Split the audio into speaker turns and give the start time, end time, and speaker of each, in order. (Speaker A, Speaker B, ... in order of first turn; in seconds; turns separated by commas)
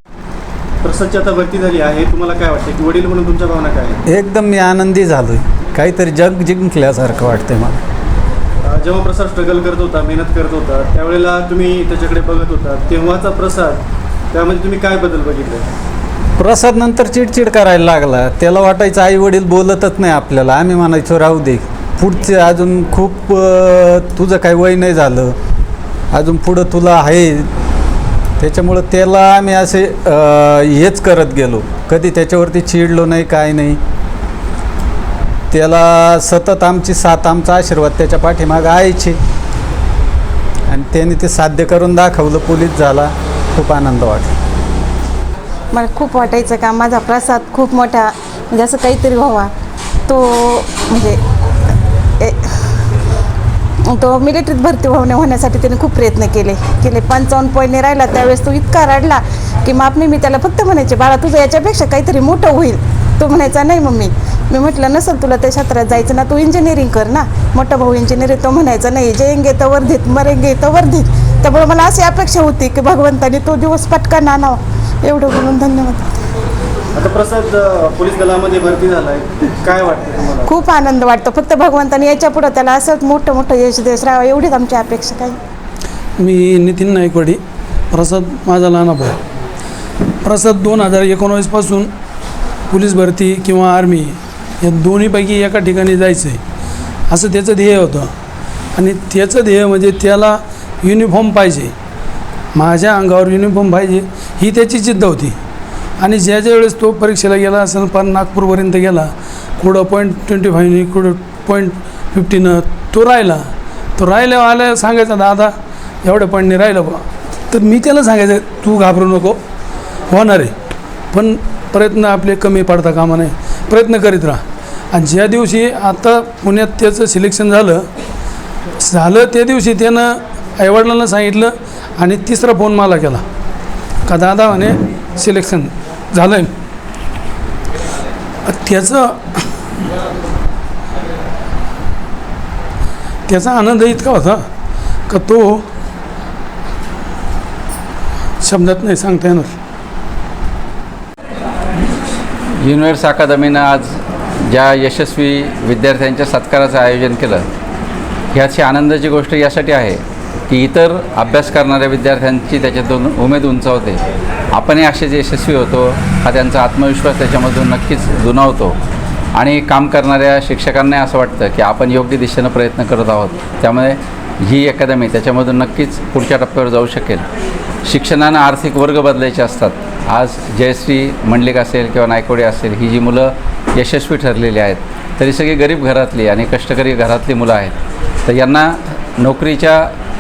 Speaker A: 0.8-4.0, Speaker B: 4.1-7.8, Speaker A: 8.7-15.7, Speaker B: 16.4-25.3, Speaker B: 26.1-27.5, Speaker B: 28.4-33.8, Speaker B: 35.5-39.2, Speaker B: 40.7-44.3, Speaker C: 45.7-49.5, Speaker C: 50.1-51.2, Speaker C: 52.2-52.5, Speaker C: 53.9-76.1, Speaker A: 77.0-80.5, Speaker C: 80.5-85.4, Speaker D: 86.2-87.4, Speaker D: 87.9-89.2, Speaker D: 90.2-91.9, Speaker D: 92.7-96.4, Speaker D: 97.1-98.1, Speaker D: 98.8-101.7, Speaker D: 102.5-105.4, Speaker D: 106.0-119.4, Speaker D: 120.1-120.5, Speaker D: 121.1-127.9, Speaker D: 128.8-133.2, Speaker D: 134.1-136.5, Speaker D: 138.5-139.4, Speaker D: 143.3-144.4, Speaker D: 145.1-145.7, Speaker D: 148.4-149.5, Speaker E: 152.7-153.9, Speaker E: 154.5-157.4, Speaker E: 158.3-164.0, Speaker E: 164.6-168.7, Speaker E: 169.4-174.0, Speaker E: 174.5-177.2, Speaker E: 177.9-187.8, Speaker E: 188.3-188.7, Speaker E: 189.2-189.8